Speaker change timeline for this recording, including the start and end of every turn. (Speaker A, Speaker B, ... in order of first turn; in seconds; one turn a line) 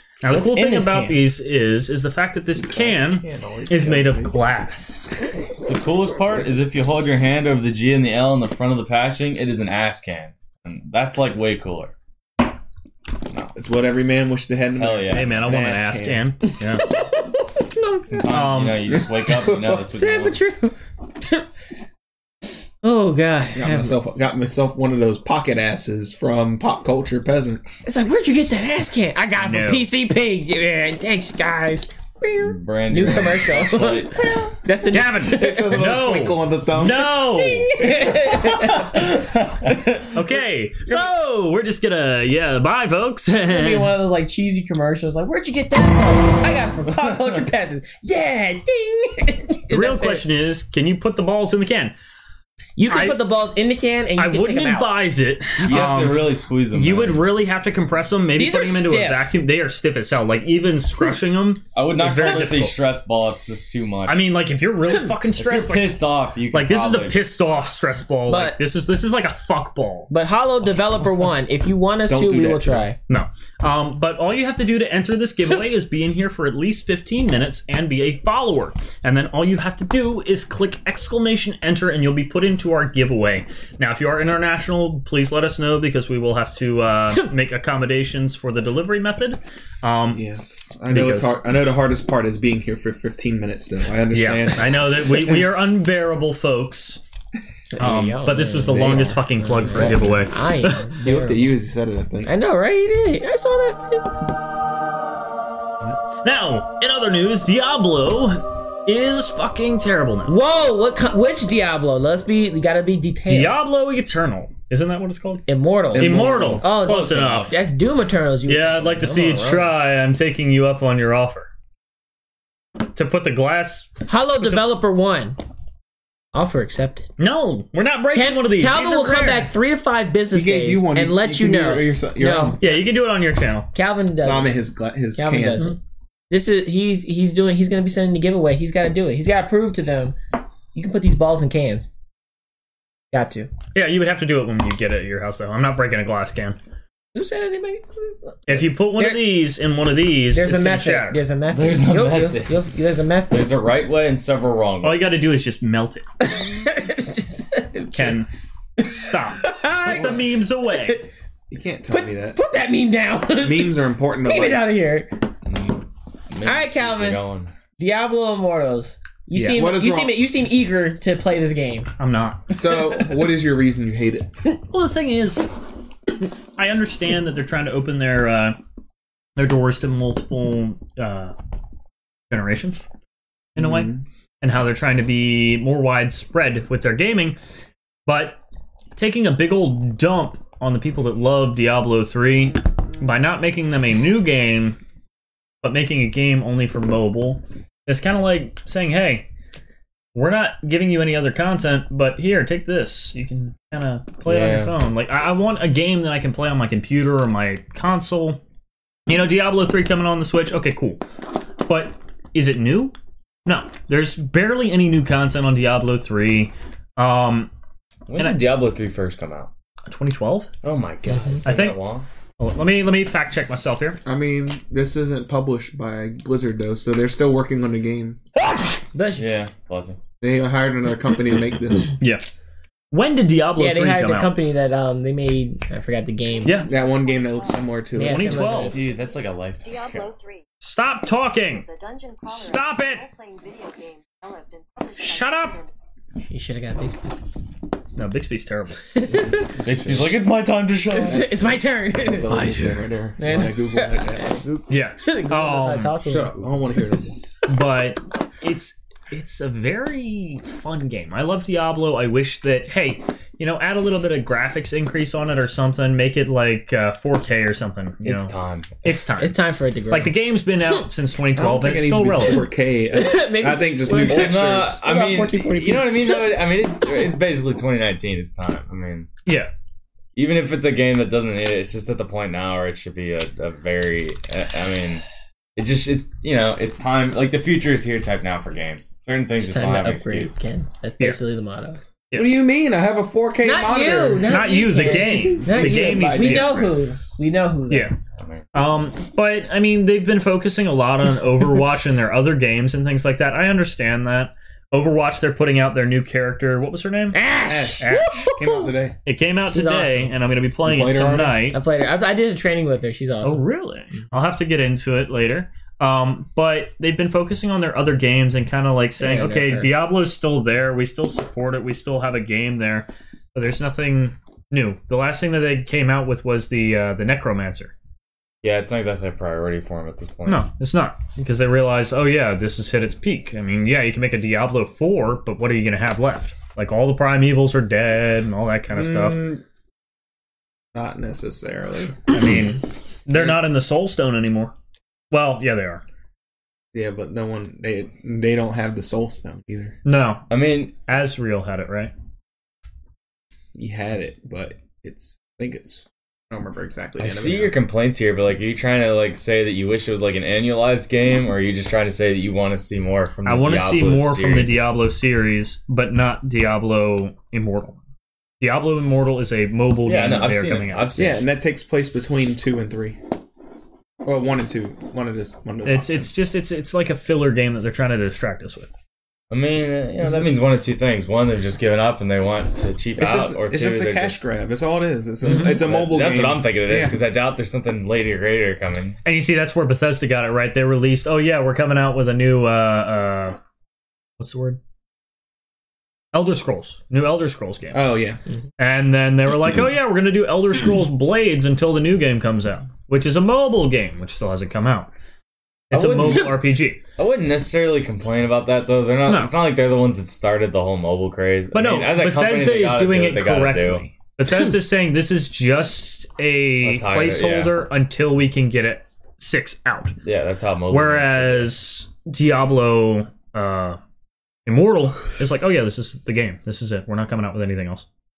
Speaker A: 0.2-5.2
Speaker B: 0.3-1.2
Speaker C: 2.6-4.4
Speaker D: 5.7-11.9
Speaker C: 13.5-16.2
Speaker D: 14.8-15.3
Speaker A: 15.1-16.8
Speaker B: 16.9-18.3
Speaker D: 18.1-20.4
Speaker A: 18.3-18.9
Speaker C: 19.3-19.7
Speaker B: 19.9-21.4
Speaker B: 22.8-23.9
Speaker C: 23.5-27.8
Speaker B: 27.8-35.7
Speaker A: 29.4-29.9
Speaker D: 32.4-34.5
Speaker A: 34.9-37.9
Speaker C: 35.2-37.2
Speaker B: 37.2-39.2
Speaker A: 40.1-43.9
Speaker B: 43.5-50.2
Speaker D: 46.9-47.3
Speaker A: 49.7-51.9
Speaker B: 52.8-54.9
Speaker A: 52.9-53.2
Speaker A: 54.2-62.8
Speaker D: 55.6-57.2
Speaker B: 58.4-59.2
Speaker D: 61.7-64.2
Speaker A: 64.1-70.1
Speaker D: 65.4-67.2
Speaker B: 68.3-68.6
Speaker B: 70.1-73.0
Speaker C: 72.0-72.9
Speaker A: 73.1-90.2
Speaker C: 90.1-95.5
Speaker A: 90.9-91.3
Speaker A: 94.1-97.0
Speaker B: 97.7-101.5
Speaker A: 97.8-100.8
Speaker C: 98.7-100.2
Speaker C: 101.0-102.3
Speaker B: 102.2-104.2
Speaker A: 106.2-110.3
Speaker B: 110.3-113.5
Speaker A: 113.3-117.5
Speaker B: 115.5-119.7
Speaker C: 115.9-116.7
Speaker D: 116.9-117.5
Speaker A: 118.5-121.5
Speaker A: 122.9-124.6
Speaker B: 124.1-125.4
Speaker B: 126.3-127.1
Speaker A: 127.2-129.5
Speaker B: 128.1-132.6
Speaker C: 130.3-132.6
Speaker A: 132.6-133.7
Speaker B: 133.7-134.5
Speaker C: 134.2-135.7
Speaker B: 135.2-135.8
Speaker B: 136.3-140.2
Speaker B: 140.7-141.9
Speaker B: 143.1-143.5
Speaker A: 143.7-146.6
Speaker B: 147.1-149.2
Speaker A: 148.5-151.2
Speaker B: 150.3-153.5
Speaker D: 151.5-152.6
Speaker D: 153.3-155.1
Speaker A: 154.8-156.0
Speaker B: 156.2-158.2
Speaker A: 157.9-158.3
Speaker B: 158.8-161.0
Speaker A: 158.8-161.0
Speaker C: 161.5-162.4
Speaker B: 161.9-165.1
Speaker C: 163.4-164.6
Speaker D: 165.4-167.5
Speaker B: 166.4-167.2
Speaker B: 167.8-171.9
Speaker A: 169.3-169.6
Speaker C: 169.5-170.2
Speaker A: 172.0-172.6
Speaker C: 172.5-174.4
Speaker A: 174.7-175.5
Speaker A: 176.6-178.6
Speaker A: 179.3-181.3
Speaker A: 182.3-182.8
Speaker A: 183.5-187.3
Speaker C: 183.6-184.0
Speaker A: 188.1-188.4
Speaker A: 188.9-194.8
Speaker A: 195.6-199.3
Speaker A: 200.1-208.4
Speaker D: 204.2-204.7
Speaker A: 209.1-211.0
Speaker A: 211.7-212.9
Speaker A: 213.4-217.5
Speaker D: 218.1-219.5
Speaker A: 219.9-220.5
Speaker D: 220.6-222.1
Speaker B: 221.1-221.4
Speaker A: 221.4-221.8
Speaker A: 222.4-224.0
Speaker C: 224.0-228.2
Speaker B: 228.9-229.3
Speaker D: 229.2-230.0
Speaker C: 230.2-232.0
Speaker A: 232.9-234.3
Speaker B: 233.6-236.6
Speaker E: 236.2-237.8
Speaker A: 236.4-236.7
Speaker C: 236.6-238.4
Speaker B: 237.9-238.8
Speaker A: 238.0-238.8
Speaker E: 238.4-240.4
Speaker D: 238.7-240.1
Speaker A: 240.6-241.7
Speaker E: 241.3-245.7
Speaker A: 242.3-243.1
Speaker A: 244.9-245.6
Speaker B: 246.3-247.2
Speaker A: 247.9-248.9
Speaker B: 248.9-249.5
Speaker C: 249.0-250.2
Speaker D: 249.6-251.4
Speaker B: 250.9-252.5
Speaker C: 252.0-254.5
Speaker D: 252.1-252.8
Speaker B: 253.2-256.4
Speaker A: 254.7-255.9
Speaker C: 256.0-257.2
Speaker A: 257.4-269.3
Speaker D: 268.0-268.8
Speaker B: 269.2-270.1
Speaker A: 269.9-272.4
Speaker C: 271.3-274.8
Speaker B: 272.9-276.3
Speaker D: 274.0-279.1
Speaker A: 279.2-279.5
Speaker D: 280.1-285.0
Speaker D: 285.6-290.3
Speaker B: 289.4-291.8
Speaker C: 292.1-296.7
Speaker B: 293.4-297.9
Speaker A: 294.3-296.8
Speaker A: 297.7-297.9
Speaker D: 298.2-298.4
Speaker A: 298.5-307.2
Speaker B: 307.1-308.7
Speaker C: 307.4-309.0
Speaker A: 307.8-308.3
Speaker A: 309.0-311.6
Speaker B: 309.5-310.1
Speaker C: 310.6-311.4
Speaker B: 311.5-313.4
Speaker A: 313.2-327.7
Speaker B: 319.0-319.7
Speaker D: 328.4-330.4
Speaker A: 330.2-339.2
Speaker C: 338.7-339.4
Speaker C: 340.7-343.4
Speaker A: 342.1-344.5
Speaker A: 345.1-345.8
Speaker C: 346.7-349.8
Speaker A: 349.8-351.9
Speaker D: 350.3-350.7
Speaker C: 353.5-357.6
Speaker D: 357.0-364.6
Speaker A: 363.2-367.8
Speaker A: 368.4-371.1
Speaker D: 369.9-371.2
Speaker C: 371.0-373.0
Speaker C: 374.0-376.1
Speaker A: 375.6-378.7
Speaker D: 379.3-384.2
Speaker C: 380.0-380.3
Speaker C: 383.0-387.0
Speaker A: 385.2-385.6
Speaker D: 385.2-389.0
Speaker A: 389.0-393.4
Speaker A: 394.2-394.6
Speaker A: 396.1-397.9
Speaker C: 397.7-398.2
Speaker A: 398.6-404.9
Speaker A: 405.7-406.8
Speaker D: 405.7-406.3
Speaker D: 407.0-413.8
Speaker A: 409.1-409.3
Speaker A: 411.5-420.0
Speaker D: 416.6-417.5
Speaker D: 420.0-421.5
Speaker A: 420.7-423.8
Speaker A: 424.4-427.8